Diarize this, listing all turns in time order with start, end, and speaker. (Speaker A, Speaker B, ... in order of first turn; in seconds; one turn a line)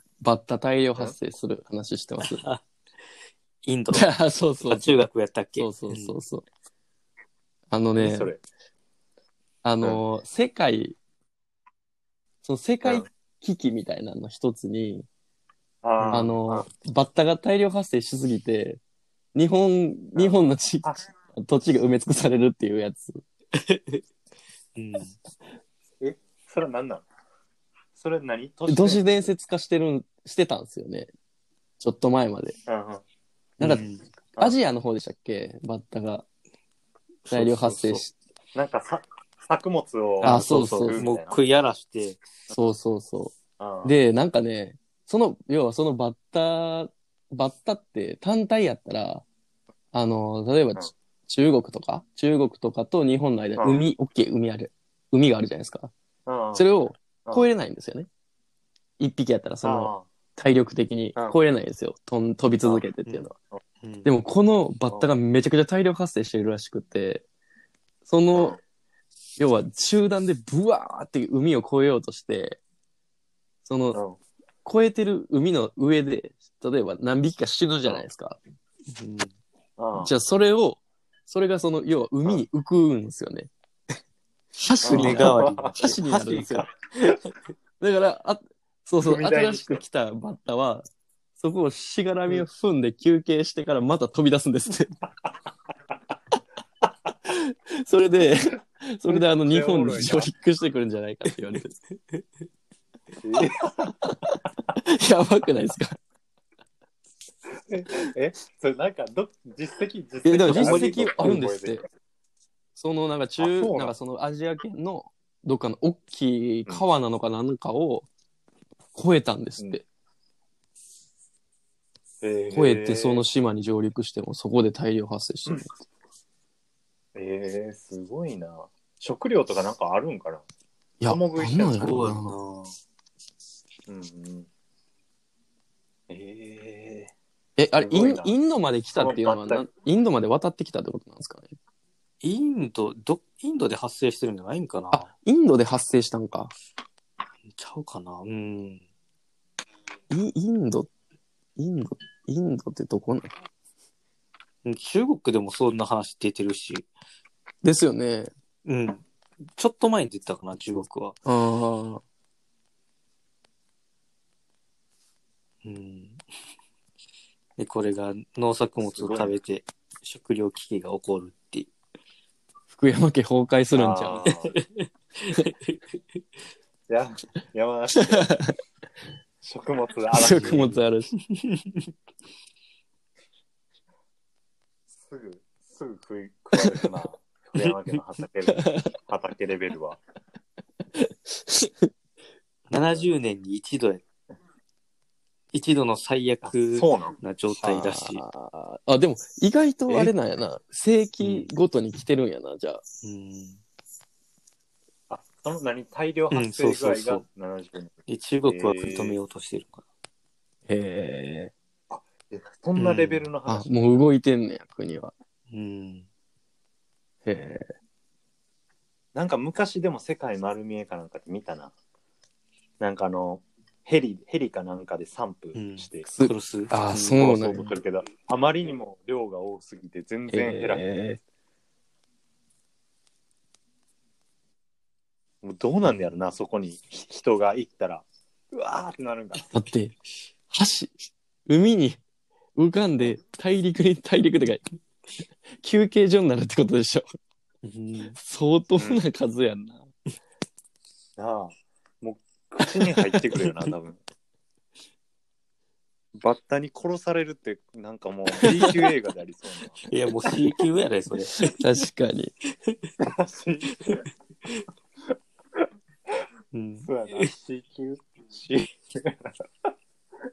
Speaker A: 0.2-2.4
Speaker B: 2.2-2.6
Speaker B: 3.6-4.1
Speaker A: 3.9-5.0
Speaker B: 4.6-6.2
Speaker A: 5.6-6.4
Speaker A: 7.7-8.3
Speaker C: 8.0-8.4
Speaker A: 9.6-10.9
Speaker A: 12.4-15.1
Speaker C: 15.8-16.6
Speaker B: 16.0-16.3
Speaker A: 16.1-18.8
Speaker A: 19.3-23.2
Speaker C: 20.1-21.0
Speaker B: 23.6-24.0
Speaker B: 24.8-25.1
Speaker C: 26.0-27.0
Speaker C: 27.9-29.3
Speaker A: 28.7-31.1
Speaker A: 31.8-32.5
Speaker C: 32.6-33.0
Speaker B: 33.6-34.0
Speaker A: 34.4-36.2
Speaker A: 37.3-38.1
Speaker C: 37.3-41.4
Speaker B: 40.2-42.2
Speaker A: 40.2-41.0
Speaker A: 42.5-49.2
Speaker C: 43.6-43.9
Speaker A: 49.9-55.9
Speaker C: 53.6-53.8
Speaker C: 56.2-56.7
Speaker A: 56.5-58.1
Speaker A: 59.0-63.3
Speaker C: 59.6-60.1
Speaker B: 63.8-64.1
Speaker A: 64.0-67.2
Speaker A: 68.1-68.6
Speaker A: 69.4-72.6
Speaker A: 73.6-74.0
Speaker C: 73.9-74.2
Speaker A: 74.6-78.4
Speaker B: 78.9-79.3
Speaker C: 79.8-80.1
Speaker A: 80.0-83.5
Speaker B: 84.6-87.2
Speaker A: 84.8-86.7
Speaker C: 84.8-86.0
Speaker A: 87.8-90.8
Speaker C: 89.0-89.8
Speaker A: 91.4-95.0
Speaker A: 97.3-101.8
Speaker C: 99.1-100.3
Speaker C: 103.2-103.9
Speaker A: 103.9-106.0
Speaker C: 107.5-111.9
Speaker A: 110.2-111.8
Speaker B: 110.5-111.1
Speaker A: 112.8-118.1
Speaker C: 113.4-113.9
Speaker A: 118.9-119.8
Speaker C: 122.2-123.2
Speaker A: 122.5-125.7
Speaker C: 127.1-130.4
Speaker A: 131.0-132.3
Speaker C: 131.1-132.1
Speaker B: 131.8-132.7
Speaker C: 133.9-134.5
Speaker C: 136.1-137.1
Speaker A: 137.6-141.5
Speaker C: 137.8-138.3
Speaker C: 138.9-139.7
Speaker B: 142.2-145.1
Speaker A: 144.9-146.5
Speaker B: 147.5-148.8
Speaker A: 150.1-150.9
Speaker A: 151.6-153.3
Speaker B: 154.6-156.9
Speaker A: 157.6-158.3
Speaker B: 158.6-159.0
Speaker B: 159.6-161.2
Speaker A: 161.2-162.0
Speaker B: 165.6-166.2
Speaker B: 167.6-171.7
Speaker C: 169.0-169.3
Speaker A: 172.7-174.3
Speaker C: 173.7-174.6
Speaker B: 174.3-176.0
Speaker C: 176.9-178.4
Speaker A: 177.9-178.5
Speaker C: 179.4-180.7
Speaker A: 180.1-181.1
Speaker B: 180.3-180.8
Speaker B: 181.3-181.8
Speaker C: 185.0-190.0
Speaker A: 188.5-188.9
Speaker A: 190.9-191.9
Speaker B: 192.7-194.0
Speaker B: 195.5-198.2
Speaker C: 196.4-197.2
Speaker A: 197.6-202.8
Speaker B: 201.2-201.5
Speaker B: 203.0-203.6
Speaker C: 205.1-207.9
Speaker B: 206.3-207.2
Speaker B: 208.1-209.8
Speaker C: 208.5-209.2
Speaker A: 210.7-211.5
Speaker C: 211.9-213.8
Speaker B: 212.8-213.3
Speaker A: 213.4-215.1
Speaker B: 215.5-216.1
Speaker A: 217.2-217.7
Speaker C: 219.1-221.7
Speaker C: 222.8-226.1
Speaker B: 225.5-227.3
Speaker A: 226.1-227.7
Speaker C: 227.1-230.8
Speaker A: 230.3-231.2
Speaker C: 235.4-239.6
Speaker B: 235.8-236.1
Speaker A: 239.5-239.9
Speaker A: 240.5-240.9
Speaker A: 241.5-242.0
Speaker A: 242.6-244.6
Speaker A: 245.6-247.0
Speaker B: 247.6-248.2
Speaker A: 248.2-249.9
Speaker C: 251.2-254.0
Speaker C: 256.2-259.8
Speaker B: 258.4-258.7
Speaker B: 259.9-261.4
Speaker A: 261.3-262.3
Speaker C: 263.0-263.9
Speaker B: 266.5-267.3
Speaker C: 266.8-269.4